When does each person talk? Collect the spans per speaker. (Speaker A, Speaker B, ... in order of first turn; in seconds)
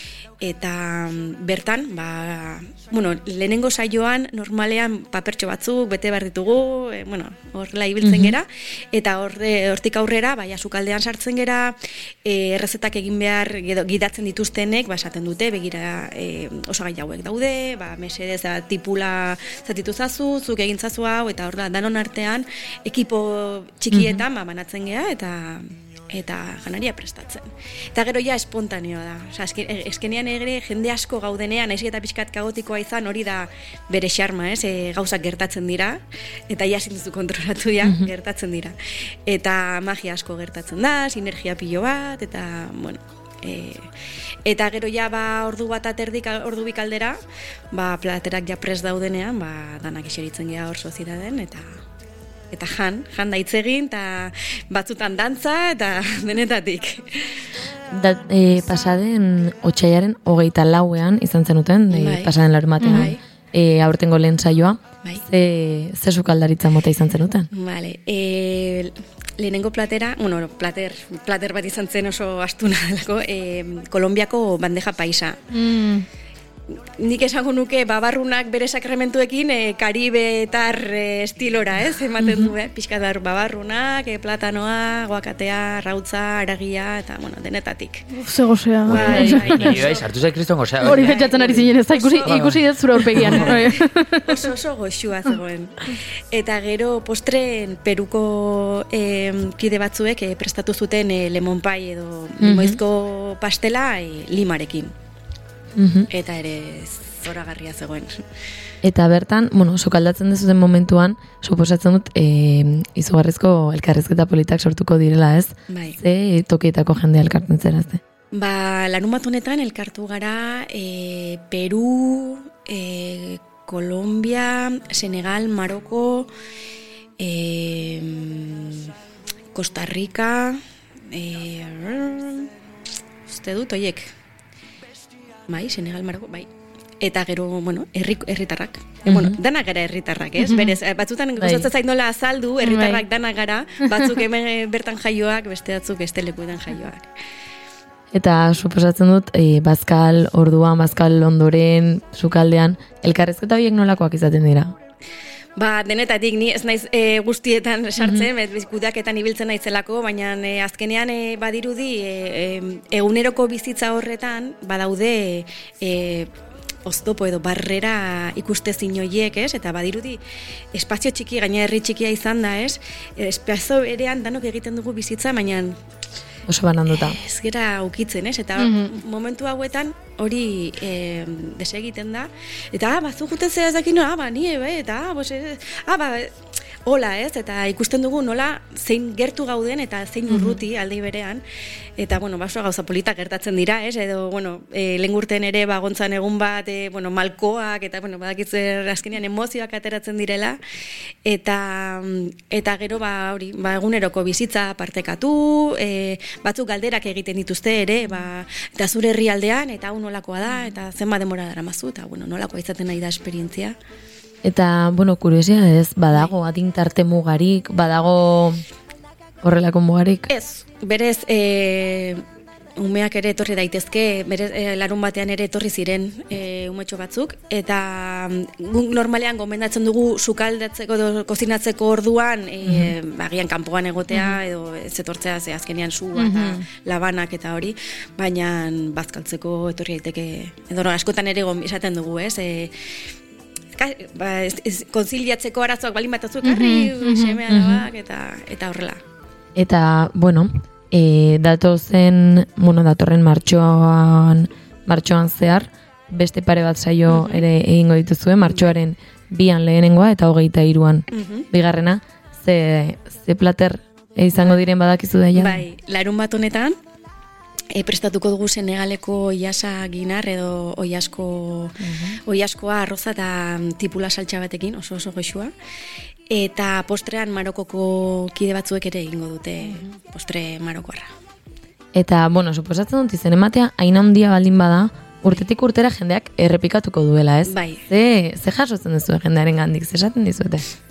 Speaker A: 0.4-43.9, 44.5-47.2, 47.7-51.8, 52.5-57.5, 61.9-63.2, 67.5-75.4, 76.7-88.0, 88.9-90.1, 90.8-104.9, 106.1-108.2, 115.7-116.0, 118.3-126.3, 127.2-128.9, 129.5-132.5, 133.3-134.1, 135.5-136.5, 137.0-147.1, 155.6-166.3, 166.8-170.2, 170.7-175.8, 176.9-186.3, 186.9-191.4, 192.0-200.6, 201.3-213.8, 220.3-222.2, 222.8-242.7, 243.8-249.0, 257.1-257.5, 258.4-258.8, 261.1-261.5, 265.4-266.7, 267.7-275.5, 276.3-281.1, 287.5-287.9
Speaker B: 8.0-8.3, 23.9-24.2, 37.8-38.1, 57.9-67.5, 82.2-82.5, 102.4-102.8, 105.8-106.1, 108.8-118.0, 139.1-139.4, 141.4-141.7, 148.1-154.7, 158.0-158.3, 176.5-177.2, 214.4-218.6, 219.4-220.3, 232.7-232.9, 247.5-247.8, 249.6-265.6, 271.8-272.2, 281.9-290.7
Speaker C: 62.8-63.1, 75.5-76.1, 88.1-90.0, 90.8-94.4, 140.4-140.8, 142.6-143.0, 178.6-178.9, 190.3-190.6, 236.2-236.6, 246.4-247.4
Speaker D: 88.9-91.6, 92.2-93.6